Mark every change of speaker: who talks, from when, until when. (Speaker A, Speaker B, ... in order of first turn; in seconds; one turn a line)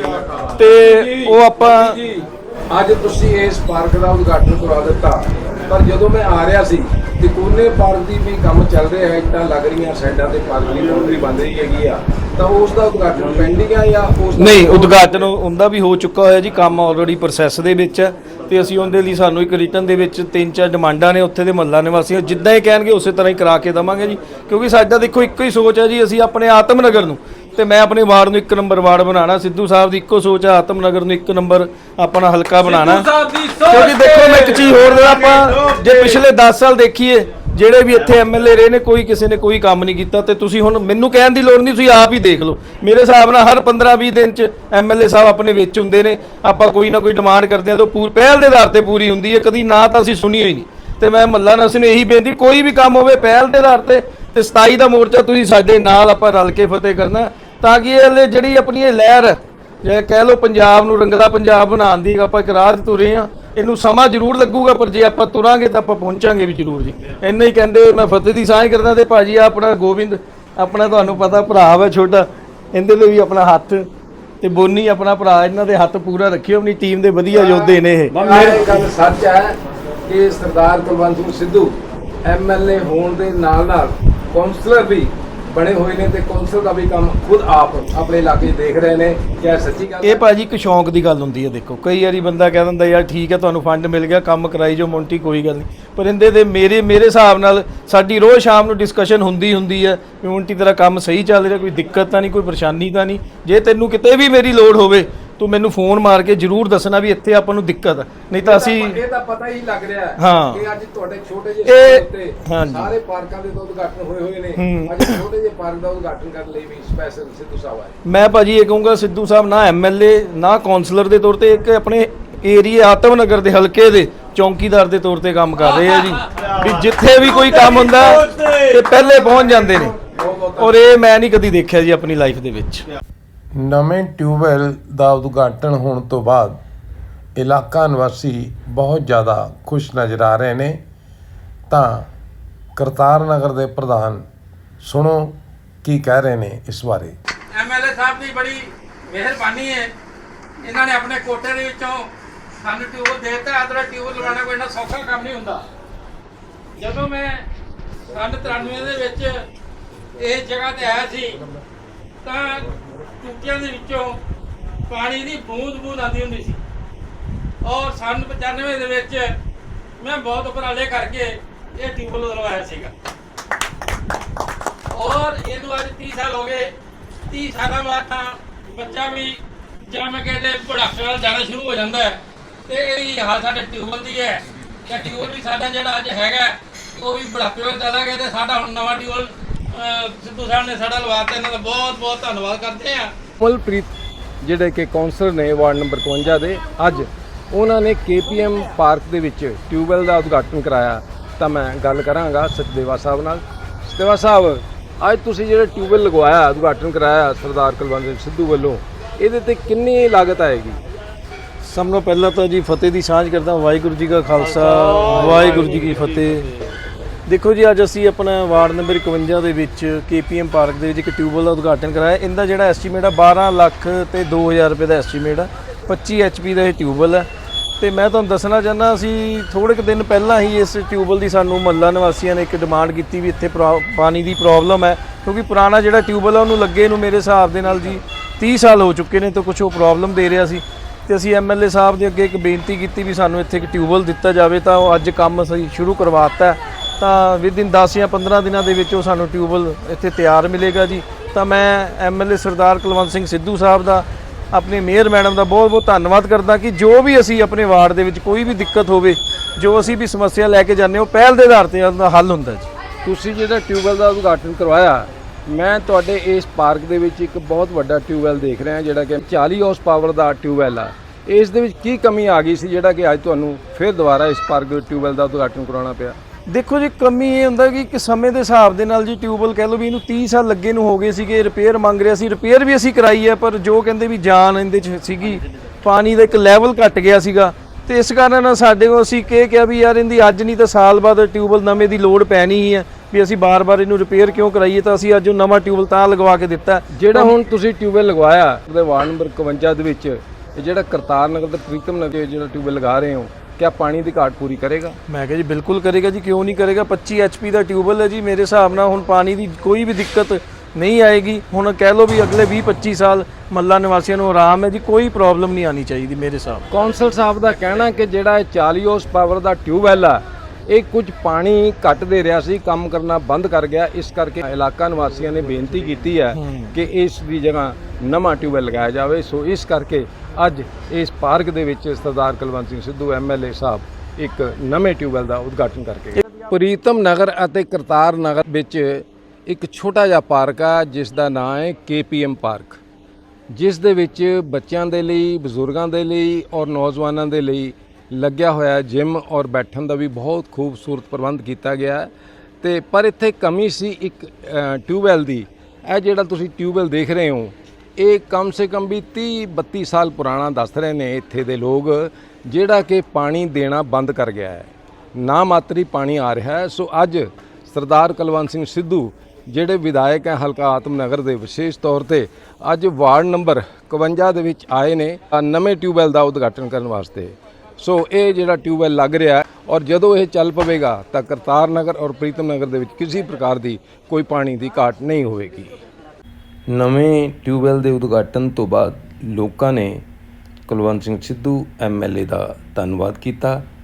Speaker A: 0.5-2.0
Speaker B: 1.7-15.0
Speaker A: 14.3-73.8
Speaker A: 74.4-78.5
Speaker B: 77.3-90.2
Speaker A: 90.0-109.0
Speaker B: 108.4-118.0
Speaker A: 110.2-110.6
Speaker A: 111.6-112.9
Speaker A: 114.5-115.2
Speaker A: 118.0-129.9
Speaker B: 130.1-130.7
Speaker A: 130.6-132.8
Speaker C: 133.5-136.6
Speaker C: 137.3-140.8
Speaker C: 141.7-142.1
Speaker C: 142.8-144.2
Speaker C: 144.8-147.2
Speaker D: 147.6-149.9
Speaker D: 150.6-152.1
Speaker D: 152.6-155.6
Speaker D: 156.8-157.4
Speaker D: 158.1-159.4
Speaker D: 160.2-161.4
Speaker D: 162.2-162.7
Speaker D: 163.2-164.2
Speaker D: 164.9-166.6
Speaker D: 167.6-169.3
Speaker D: 170.0-172.9
Speaker D: 174.9-176.7
Speaker D: 177.3-179.4
Speaker D: 179.9-193.1
Speaker E: 193.4-193.9
Speaker E: 194.4-210.8
Speaker A: 211.6-216.4
Speaker E: 215.1-215.4
Speaker A: 217.2-227.2
Speaker A: 227.8-262.7
Speaker E: 263.0-276.2
Speaker A: 276.5-297.3
Speaker E: 296.9-305.0
Speaker A: 305.1-316.6
Speaker E: 316.7-342.8
Speaker A: 326.3-326.8
Speaker E: 343.5-352.1
Speaker E: 352.6-385.7
Speaker C: 386.7-390.0
Speaker C: 390.7-393.6